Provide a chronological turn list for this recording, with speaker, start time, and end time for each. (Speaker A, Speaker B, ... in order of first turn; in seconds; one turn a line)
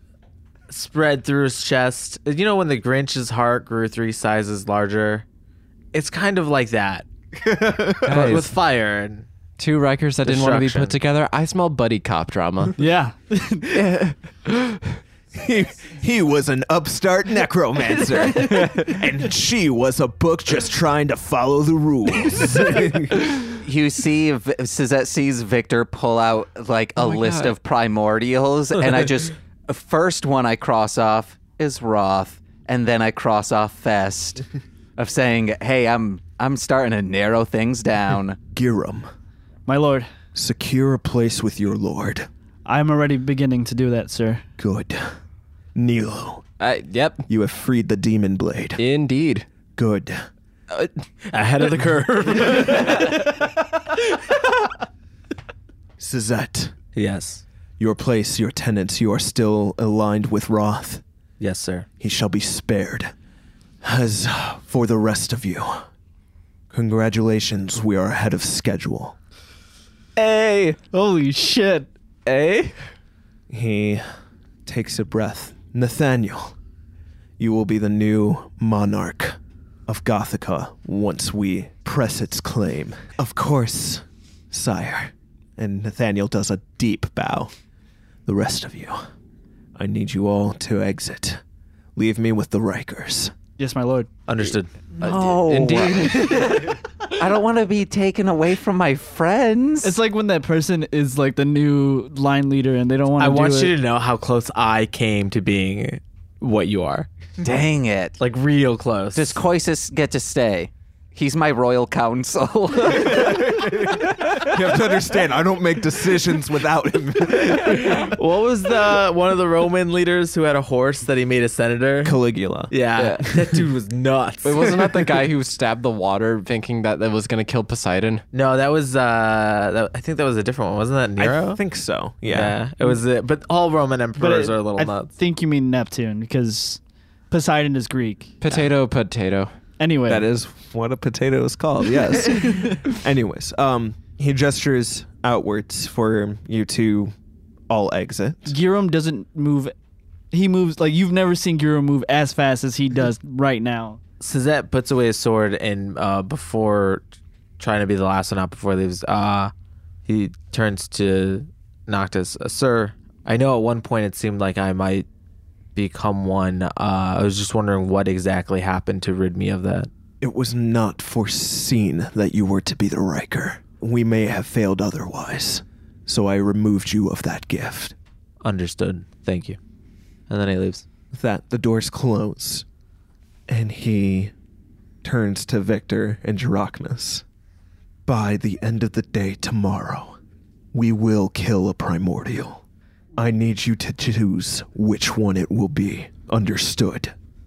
Speaker A: 0.7-5.2
Speaker A: 5.9-7.1
Speaker B: 7.4-8.4
Speaker A: 8.0-9.3
Speaker C: 8.0-8.5
Speaker C: 9.6-12.8
Speaker A: 10.2-10.9
Speaker D: 12.8-13.9
Speaker B: 15.3-23.3
Speaker C: 18.4-18.8
Speaker E: 23.5-34.4
Speaker C: 27.0-27.5
Speaker E: 35.0-38.4
Speaker B: 38.5-39.1
Speaker D: 39.6-40.1
Speaker B: 40.3-42.3
Speaker D: 42.6-44.4
Speaker B: 44.6-45.1
Speaker B: 45.7-46.4
Speaker C: 46.6-47.2
Speaker B: 47.3-48.8
Speaker C: 48.8-49.5
Speaker B: 49.7-50.2
Speaker A: 50.7-53.5
Speaker B: 56.0-56.7
Speaker A: 56.9-57.4
Speaker B: 57.8-61.0
Speaker A: 61.4-61.9
Speaker B: 62.0-63.1
Speaker B: 63.8-65.8
Speaker B: 66.7-69.2
Speaker A: 70.2-70.8
Speaker D: 70.8-71.9
Speaker A: 72.2-72.7
Speaker B: 73.5-74.0
Speaker B: 74.6-76.5
Speaker B: 77.4-87.5
Speaker B: 88.2-89.0
Speaker B: 89.8-91.4
Speaker B: 92.0-93.3
Speaker D: 93.6-94.1
Speaker A: 94.3-94.7
Speaker E: 95.0-100.0
Speaker C: 95.0-96.8
Speaker D: 99.8-103.8
Speaker A: 103.2-107.1
Speaker E: 107.4-108.2
Speaker A: 108.2-109.4
Speaker E: 109.1-113.4
Speaker A: 113.0-114.1
Speaker B: 113.2-118.1
Speaker A: 117.4-122.2
Speaker B: 122.0-122.7
Speaker A: 122.7-125.3
Speaker C: 123.0-123.2
Speaker C: 124.4-128.2
Speaker A: 128.3-131.6
Speaker B: 131.2-132.6
Speaker A: 132.3-135.1
Speaker D: 134.2-136.8
Speaker D: 137.3-138.7
Speaker C: 138.4-139.5
Speaker D: 139.8-140.2
Speaker B: 140.1-147.1
Speaker D: 142.3-142.8
Speaker B: 147.7-148.6
Speaker D: 148.5-149.7
Speaker D: 150.3-154.0
Speaker A: 154.2-157.1
Speaker A: 157.6-159.5
Speaker A: 160.1-165.1
Speaker A: 165.7-169.9
Speaker B: 170.2-177.9
Speaker A: 178.4-179.6
Speaker A: 180.3-180.8
Speaker B: 181.1-182.6
Speaker B: 183.5-184.3
Speaker B: 185.0-187.2
Speaker B: 188.1-190.2
Speaker B: 190.7-192.6
Speaker B: 193.2-197.1